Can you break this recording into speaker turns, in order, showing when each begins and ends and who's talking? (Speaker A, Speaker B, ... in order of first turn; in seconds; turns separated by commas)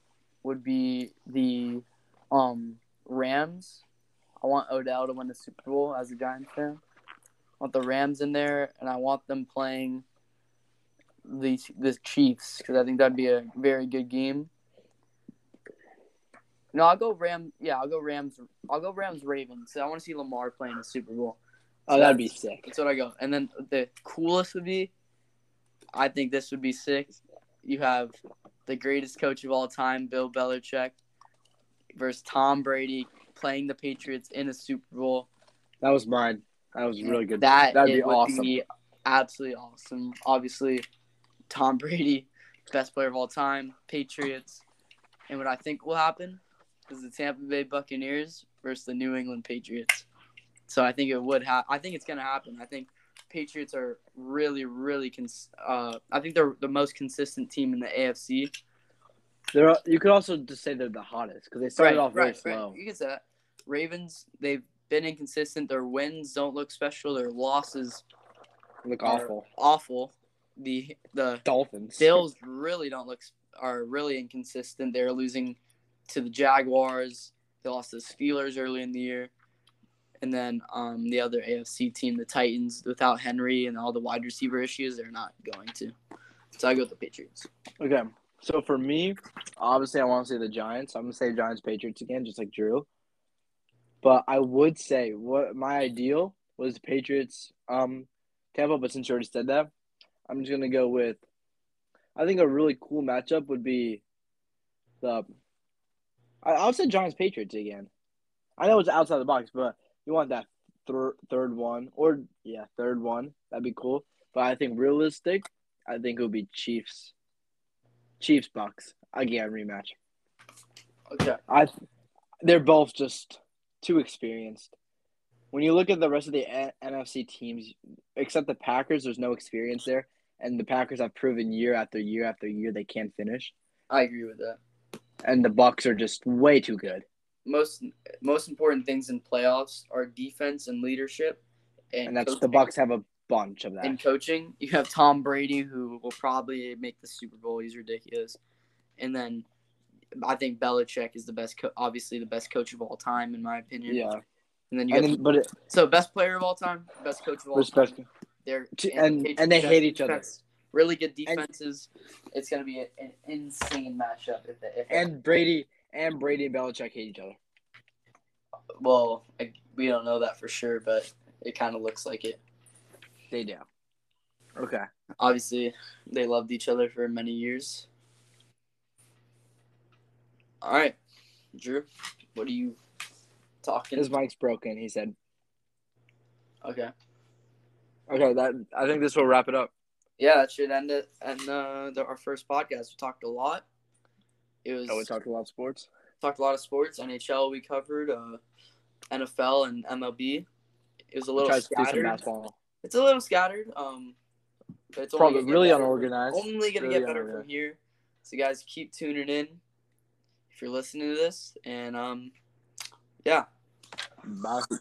Speaker A: 0.4-3.8, Speaker A: 4.4-6.8, Speaker A: 7.6-10.1, Speaker A: 11.3-14.5, Speaker A: 16.7-21.4, Speaker B: 21.9-22.7, Speaker A: 21.9-24.9, Speaker A: 25.9-30.9, Speaker A: 31.9-35.3, Speaker B: 35.8-38.5, Speaker A: 37.0-40.9, Speaker A: 41.5-44.6, Speaker A: 45.3-50.1, Speaker A: 50.7-58.5, Speaker B: 59.5-62.8, Speaker A: 61.8-68.0, Speaker B: 68.8-69.5, Speaker A: 69.0-71.4, Speaker B: 71.5-72.2, Speaker A: 72.0-79.3, Speaker A: 80.2-86.0, Speaker A: 86.6-87.5, Speaker B: 87.8-92.9, Speaker B: 94.0-99.7, Speaker B: 100.3-101.2, Speaker B: 102.2-104.0, Speaker B: 105.0-105.3, Speaker B: 106.4-107.9, Speaker B: 108.6-117.1, Speaker B: 118.2-120.0, Speaker A: 121.1-121.4, Speaker B: 122.4-124.7, Speaker B: 125.5-133.5, Speaker A: 133.9-134.6, Speaker B: 135.2-137.1, Speaker A: 137.5-142.6, Speaker B: 142.1-144.0, Speaker A: 143.8-148.4, Speaker A: 149.0-149.4, Speaker A: 150.2-154.1, Speaker B: 153.9-154.2, Speaker A: 154.7-157.9, Speaker B: 154.9-155.5, Speaker B: 157.6-158.1, Speaker A: 158.4-165.0, Speaker B: 158.8-160.2, Speaker B: 164.9-167.4, Speaker A: 168.8-172.4, Speaker B: 173.3-173.7, Speaker B: 174.6-174.9, Speaker A: 175.2-177.9, Speaker A: 180.6-181.0, Speaker A: 181.6-182.8, Speaker A: 183.6-184.1, Speaker B: 184.0-185.2, Speaker A: 186.6-186.9, Speaker B: 188.1-189.7, Speaker A: 190.2-193.7, Speaker A: 194.7-195.1, Speaker B: 194.9-195.9, Speaker A: 196.2-198.4, Speaker A: 199.1-200.5, Speaker A: 201.1-202.2, Speaker B: 201.4-202.5, Speaker A: 202.8-204.2, Speaker A: 204.9-209.6, Speaker B: 205.2-207.4, Speaker A: 210.5-212.3, Speaker B: 214.2-214.7